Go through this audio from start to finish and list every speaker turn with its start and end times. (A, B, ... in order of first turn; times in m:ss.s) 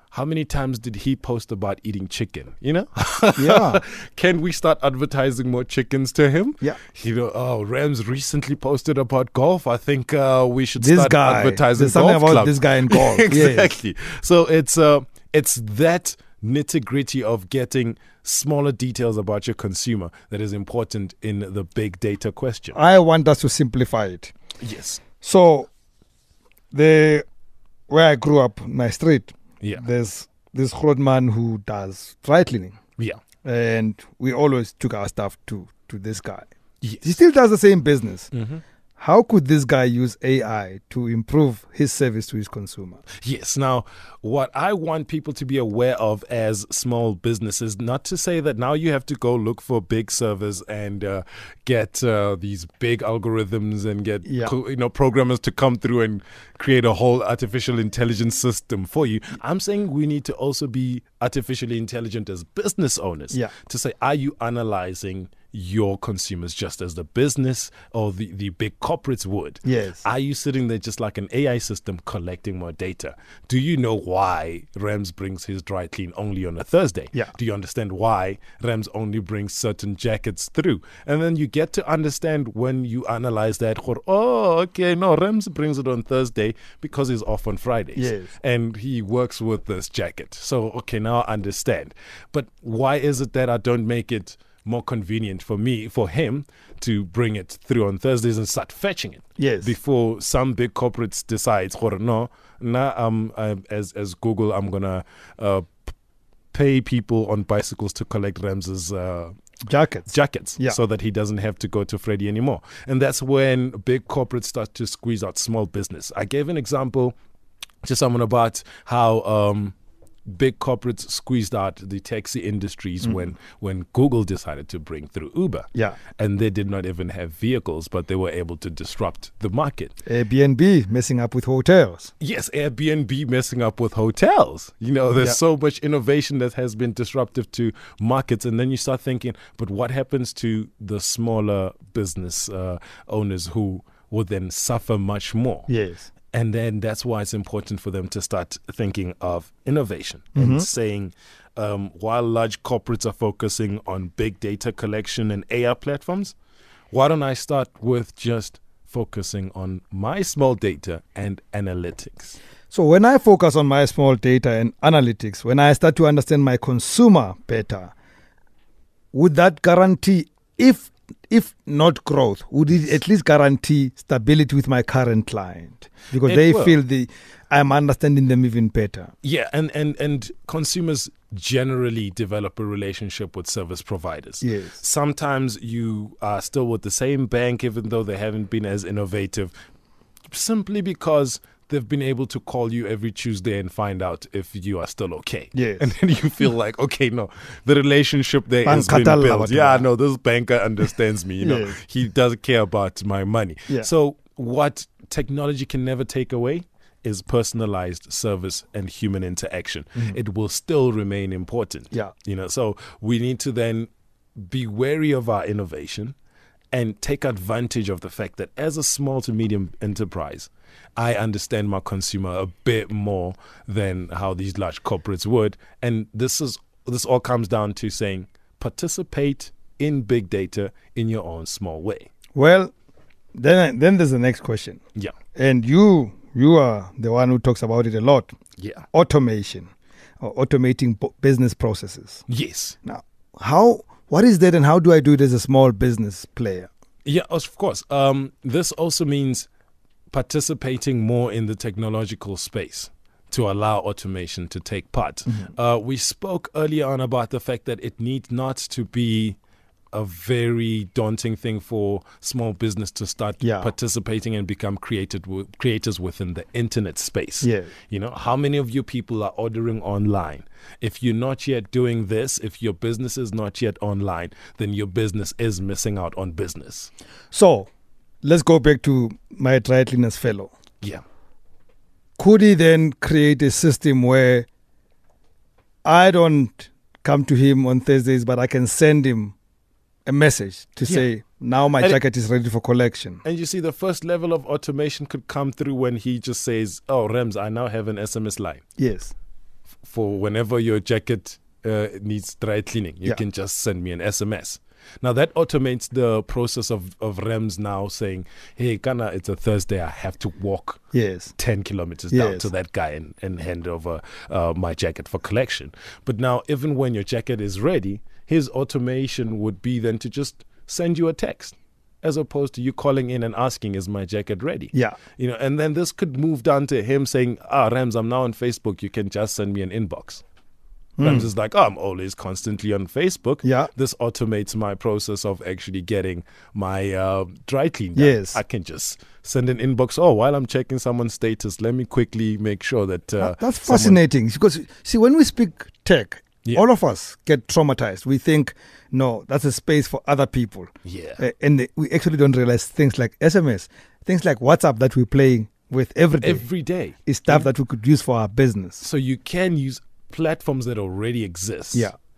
0:00.1-0:22.8 A
0:03.4-0:03.8 B
0:10.8-0:13.7 B
0:22.7-0:24.3 B
0:24.6-0:25.0 A
0:25.2-0:25.7 B
0:26.7-0:27.2 B
0:27.9-0:32.8 B
0:33.4-0:36.5 B
0:37.0-0:38.3 B
0:38.3-0:38.6 A
0:39.0-0:43.0 B
0:43.2-1:45.8 A
0:54.3-0:54.5 B
1:09.6-1:10.0 B
1:28.0-1:28.3 B
1:39.4-1:39.7 B
1:46.5-1:49.3 A
1:49.7-1:50.8 B
1:50.1-1:57.1 A
1:57.8-1:59.8 A
2:00.3-2:10.0 A
2:10.1-2:12.1 B
2:12.2-2:25.7 A
2:25.7-2:26.1 B
2:26.3-2:36.4 A
2:30.4-2:30.7 B
2:36.9-2:42.4 A
2:42.7-2:47.9 B
2:49.1-2:59.1 B
2:56.2-2:56.8 A
2:59.2-3:09.5 A
3:04.4-3:04.8 B
3:10.3-3:33.9 A
3:15.5-3:15.9 B
3:18.6-3:19.9 B
3:21.4-3:21.8 B
3:34.4-3:36.2 A
3:36.7-3:52.1 A
3:52.4-3:52.7 B
3:53.4-3:54.8 B
3:55.4-3:58.3 B
3:58.6-3:58.8 A
3:58.9-4:02.2 B
4:02.3-4:02.8 A
4:02.8-4:06.7 B
4:07.0-4:09.5 A
4:10.1-4:19.4 A
4:19.9-4:36.9 A
4:23.4-4:23.7 B
4:27.4-4:27.7 B
4:37.3-4:37.7 B
4:38.2-4:40.5 B
4:42.2-4:44.5 B
4:45.8-4:49.4 B
4:50.1-4:53.2 B
4:53.2-4:58.6 A
4:58.8-4:59.1 B
4:59.8-5:10.8 A
5:10.9-5:11.4 B
5:11.4-5:30.2 A
5:12.1-5:12.5 B
5:24.7-5:25.0 B
5:31.0-5:31.3 B
5:31.0-5:44.0 A
5:33.4-5:33.7 B
5:38.0-5:38.4 B
5:43.2-5:56.5 B
5:50.8-5:51.2 A
5:56.2-5:57.5 A
5:57.0-5:58.8 B
5:58.8-6:01.9 A